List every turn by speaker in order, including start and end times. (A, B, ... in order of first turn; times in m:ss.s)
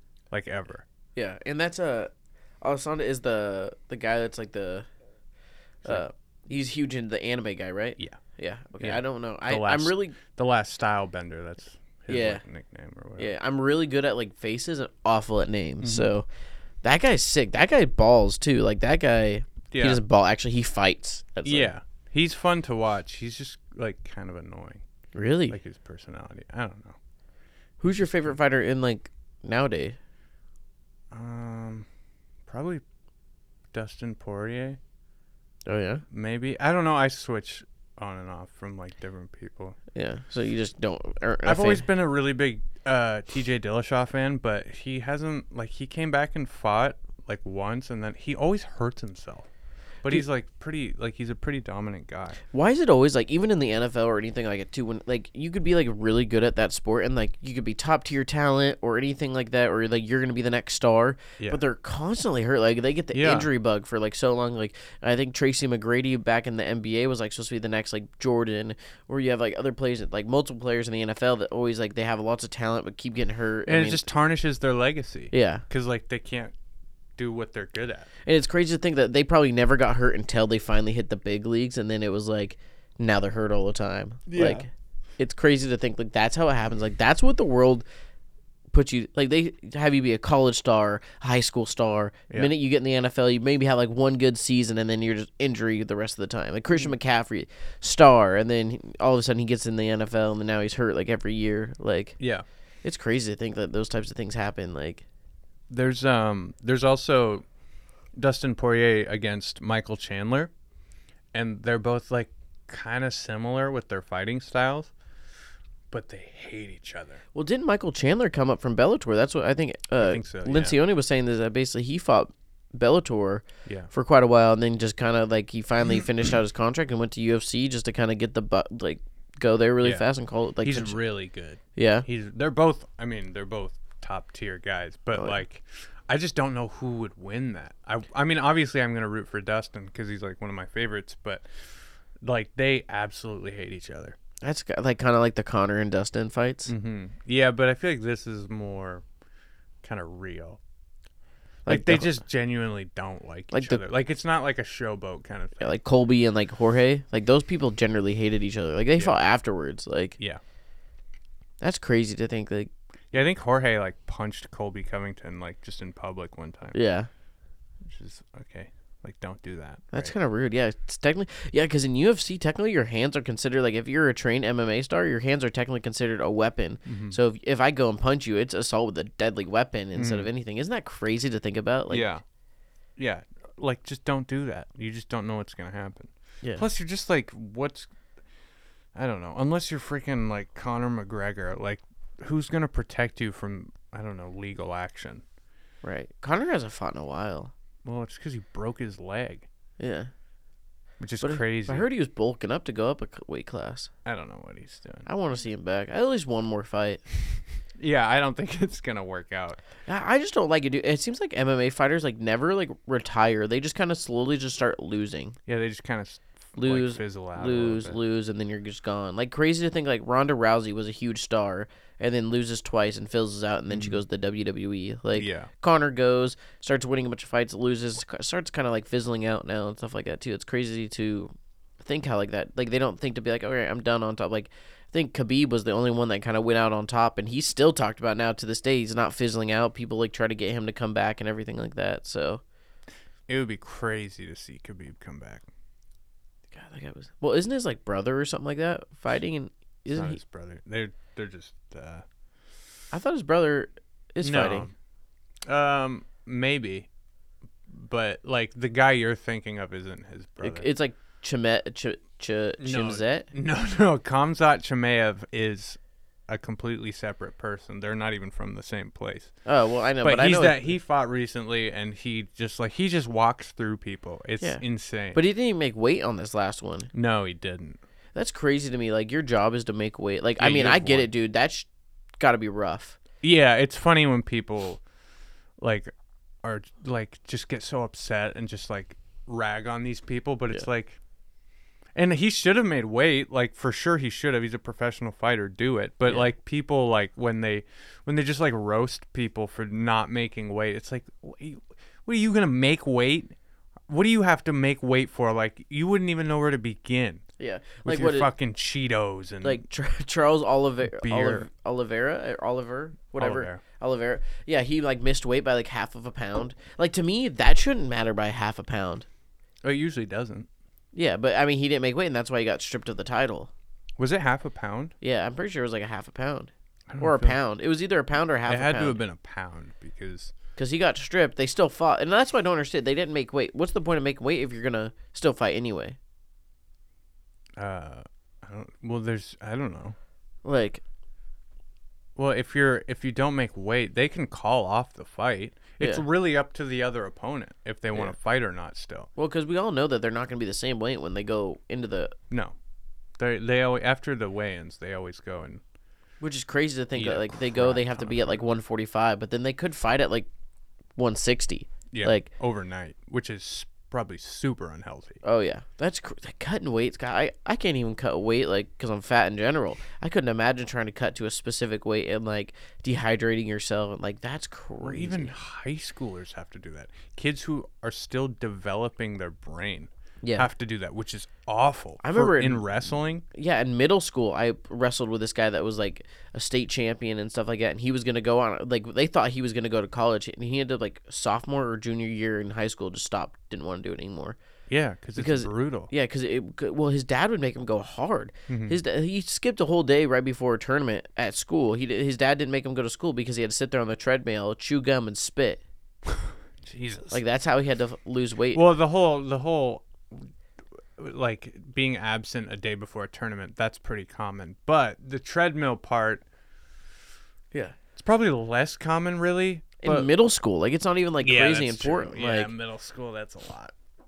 0:00.3-0:00.8 A
0:01.2-0:02.1 B
0:02.6-0:04.8 B
0:05.8-0:10.2 B
0:08.8-0:13.3 A
0:12.1-0:12.4 B
0:13.2-0:16.2 B
0:15.8-0:16.1 A
0:16.8-0:21.7 B
0:19.7-0:20.0 A
0:21.4-0:24.8 A
0:25.1-0:25.6 B
0:25.5-0:27.0 A
0:27.8-0:30.0 B
0:31.1-0:31.8 A
0:32.5-0:32.8 A
0:33.7-0:34.8 A
0:35.6-0:36.0 B
0:36.1-0:39.8 A
0:39.9-0:41.8 B
0:41.4-0:49.5 A
0:50.0-0:52.4 A
0:52.5-1:14.0 B
1:03.1-1:03.5 A
1:13.6-1:16.5 A
1:15.3-1:15.6 B
1:17.2-1:18.1 A
1:18.2-1:24.7 B
1:24.3-1:24.6 A
1:25.2-1:27.8 B
1:28.7-1:42.2 B
1:42.2-1:42.4 A
1:42.8-1:45.0 B
1:45.7-1:47.4 A
1:48.2-1:50.5 A
1:51.3-1:54.9 A
1:55.9-1:57.2 A
1:57.3-2:11.0 B
2:00.0-2:00.8 A
2:03.6-2:03.9 A
2:10.6-2:21.6 A
2:11.8-2:12.0 B
2:22.2-2:24.2 A
2:24.4-2:26.7 B
2:26.7-2:29.0 A
2:29.8-2:30.6 A
2:31.6-2:32.1 B
2:31.7-2:35.8 A
2:33.5-2:33.8 B
2:35.6-2:40.2 B
2:41.6-2:42.7 B
2:43.1-2:46.8 A
2:46.7-2:47.1 B
2:47.8-2:50.1 A
2:49.9-3:02.0 B
2:56.8-2:57.2 A
2:59.9-3:00.3 A
3:01.9-3:02.2 A
3:03.0-3:07.9 A
3:08.9-3:15.2 A
3:15.8-3:17.5 B
3:17.8-3:19.4 A
3:19.8-3:20.1 B
3:21.0-3:21.9 A
3:21.2-3:23.9 B
3:24.0-3:25.1 A
3:25.0-3:27.0 B
3:27.8-3:29.6 A
3:29.9-3:35.4 B
3:35.5-3:38.0 A
3:36.6-4:02.4 B
3:43.7-3:44.0 A
3:45.1-3:45.5 A
4:03.3-4:05.4 A
4:06.5-4:10.2 B
4:09.9-4:12.0 A
4:12.9-4:14.6 B
4:14.2-4:14.7 A
4:15.5-4:16.9 A
4:17.7-4:20.6 A
4:20.4-4:23.3 B
4:22.6-4:25.8 A
4:26.3-4:29.4 A
4:29.4-4:30.7 B
4:30.0-4:35.2 A
4:35.1-4:36.9 B
4:36.9-4:37.8 A
4:38.1-4:41.7 B
4:40.4-4:41.1 A
4:42.2-4:43.0 B
4:43.2-4:44.8 A
4:45.6-4:45.9 A
4:46.4-4:51.0 A
4:51.9-5:03.3 A
4:56.0-4:56.3 B
5:03.9-5:07.2 A
5:07.4-5:08.3 B
5:07.8-5:09.6 A
5:09.4-5:19.0 B
5:11.0-5:11.5 A
5:13.2-5:13.6 A
5:19.6-5:20.5 A
5:20.9-5:23.5 B
5:24.0-5:24.9 A
5:25.0-5:29.0 B
5:26.9-5:27.4 A
5:28.4-5:30.3 A
5:30.6-5:36.0 B
5:37.6-5:40.0 A
5:40.4-5:40.8 B
5:42.2-5:49.1 A
5:49.2-5:52.1 B
5:53.2-5:55.6 A
5:56.2-6:00.3 B
5:57.0-5:58.4 A
6:01.0-6:02.3 B
6:01.9-6:05.2 A
6:05.2-6:15.3 B
6:14.8-6:23.2 A
6:20.2-6:20.5 B
6:22.0-6:22.7 B
6:23.3-6:34.4 B
6:34.7-6:35.9 A
6:35.2-6:45.6 B
6:38.5-6:38.8 A
6:46.6-6:47.2 A
6:47.1-6:48.6 B
6:48.5-6:50.3 A
6:51.0-6:56.2 A
6:58.0-7:00.1 A
6:59.8-7:02.5 B
7:01.2-7:03.7 A